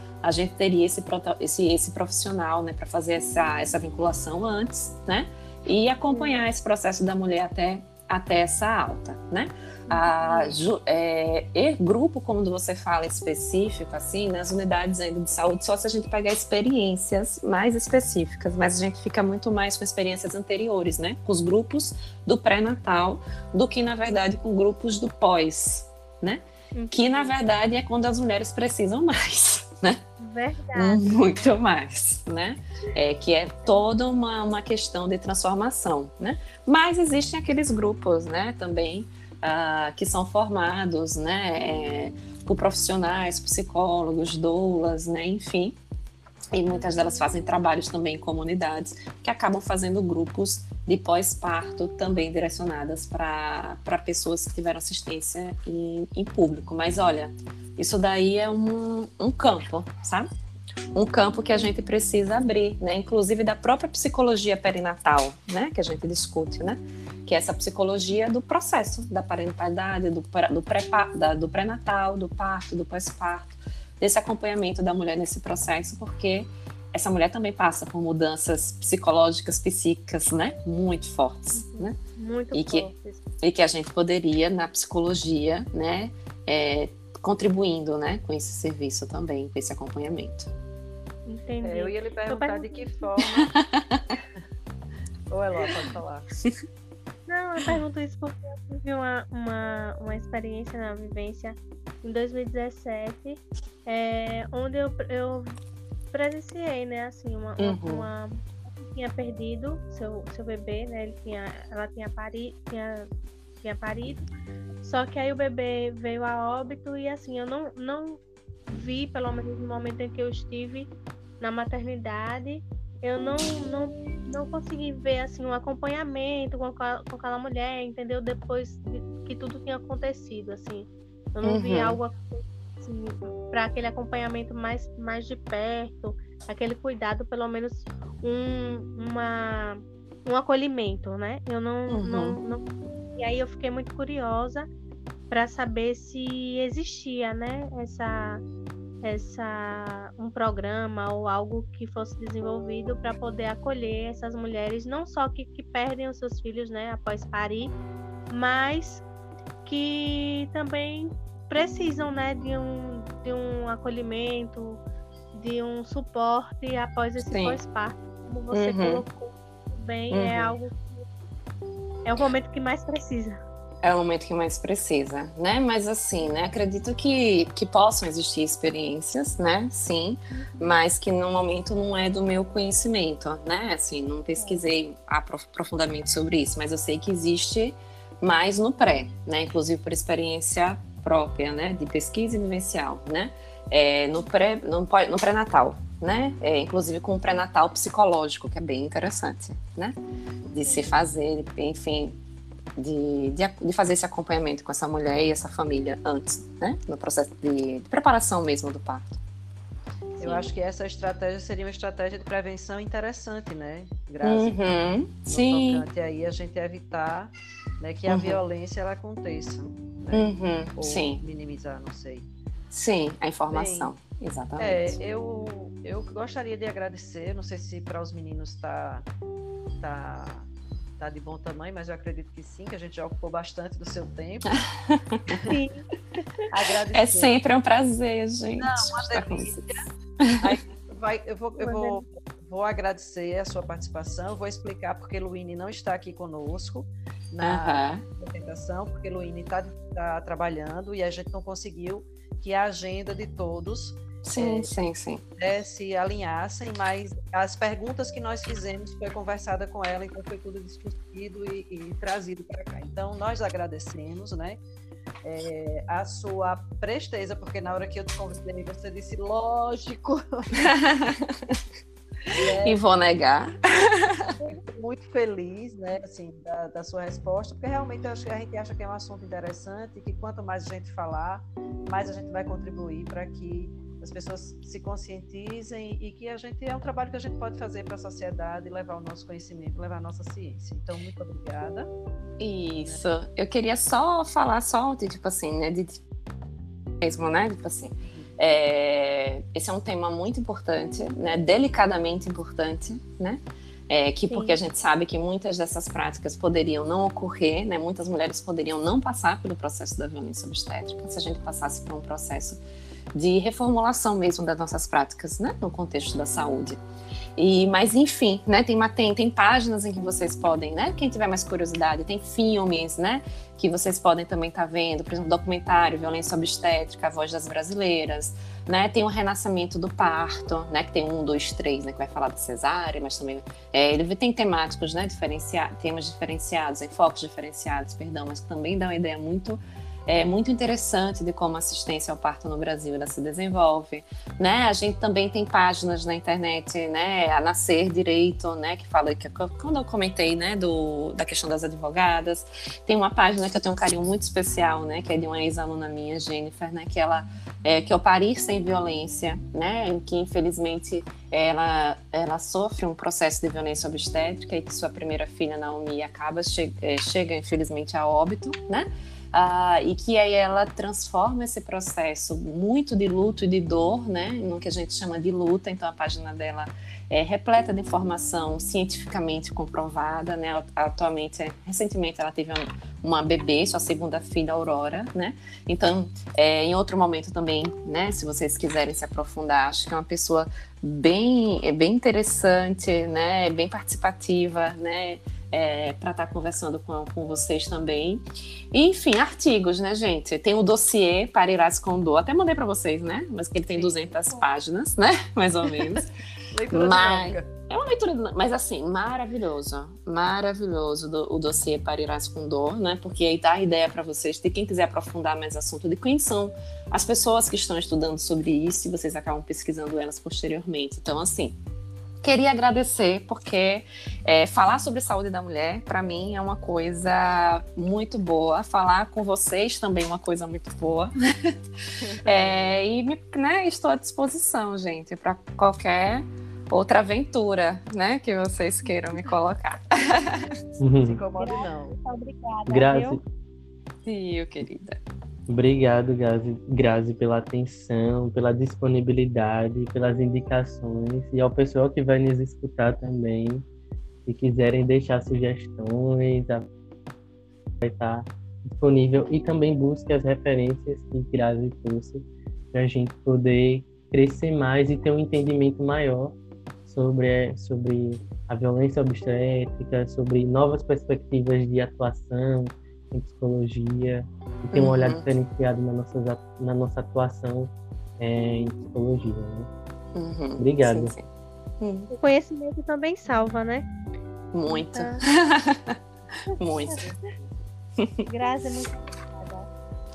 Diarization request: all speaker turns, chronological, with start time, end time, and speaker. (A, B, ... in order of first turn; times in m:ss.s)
0:00.2-0:30.0 A
0:06.1-0:06.4 B
0:09.9-0:10.6 B
0:26.8-0:27.3 B
0:30.2-0:31.5 B
0:30.7-0:45.8 A
0:46.5-1:00.3 A
0:46.7-0:47.2 B
1:00.9-1:22.0 A
1:21.6-1:23.2 B
1:22.5-1:22.9 A
1:23.4-1:30.5 A
1:31.3-1:33.1 B
1:31.6-1:33.5 C
1:33.5-1:34.0 A
1:35.3-1:36.3 C
1:37.3-1:45.6 B
1:46.1-1:53.1 B
1:47.6-1:48.1 A
1:53.6-1:54.3 B
1:54.8-2:24.7 B
2:11.4-2:12.0 A
2:21.9-2:22.4 A
2:25.3-2:28.4 B
2:29.0-2:37.8 B
2:38.3-2:39.0 B
2:39.6-2:44.8 B
2:45.3-2:51.1 B
2:47.2-2:47.6 A
2:48.5-2:49.0 A
2:50.1-2:50.6 A
2:52.0-2:53.4 B
2:53.8-3:20.0 A
3:00.3-3:00.8 B
3:20.5-3:22.2 A
3:20.6-3:20.9 B
3:22.8-3:29.2 A
3:30.2-3:30.5 B
3:30.2-3:42.3 C
3:34.2-3:35.9 A
3:38.1-3:38.4 A
3:40.1-3:41.2 A
3:42.7-3:45.0 A
3:43.5-3:43.9 C
3:44.6-3:49.1 C
3:49.8-3:54.5 C
3:54.9-3:55.2 A
3:55.4-3:55.8 B
3:56.5-3:57.3 C
3:56.9-3:59.6 A
3:58.6-3:59.9 C
4:00.2-4:00.5 A
4:00.4-4:14.7 C
4:01.6-4:02.0 B
4:07.4-4:08.0 A
4:14.2-4:15.2 A
4:15.4-4:24.6 C
4:25.2-4:30.8 C
4:30.6-4:31.6 A
4:32.3-4:34.3 A
4:32.3-4:32.8 C
4:34.4-4:51.9 C
4:52.4-4:56.0 A
4:57.0-5:12.6 A
4:58.1-4:58.3 C
5:04.3-5:04.6 B
5:13.1-5:16.8 A
5:17.4-6:46.1 A
6:43.7-6:44.3 C
6:46.5-6:47.5 C
6:46.7-7:01.6 A
7:02.2-7:11.6 A
7:12.0-7:12.6 C
7:12.2-7:20.5 A
7:20.8-7:21.2 D
7:21.0-7:22.0 C
7:21.4-7:23.2 B
7:22.7-7:23.2 D
7:24.0-7:25.0 A
7:25.5-7:33.7 D
7:34.3-7:36.7 D
7:37.8-7:59.7 D
7:54.7-7:55.2 A
8:00.2-8:01.2 A
8:00.6-8:01.1 D
8:01.8-8:02.1 A
8:02.1-8:03.9 B
8:04.5-8:06.0 A
8:04.7-8:05.2 B
8:06.5-8:07.0 A
8:06.7-8:07.0 B
8:07.0-8:07.5 C
8:08.0-8:08.3 A
8:08.3-8:09.7 B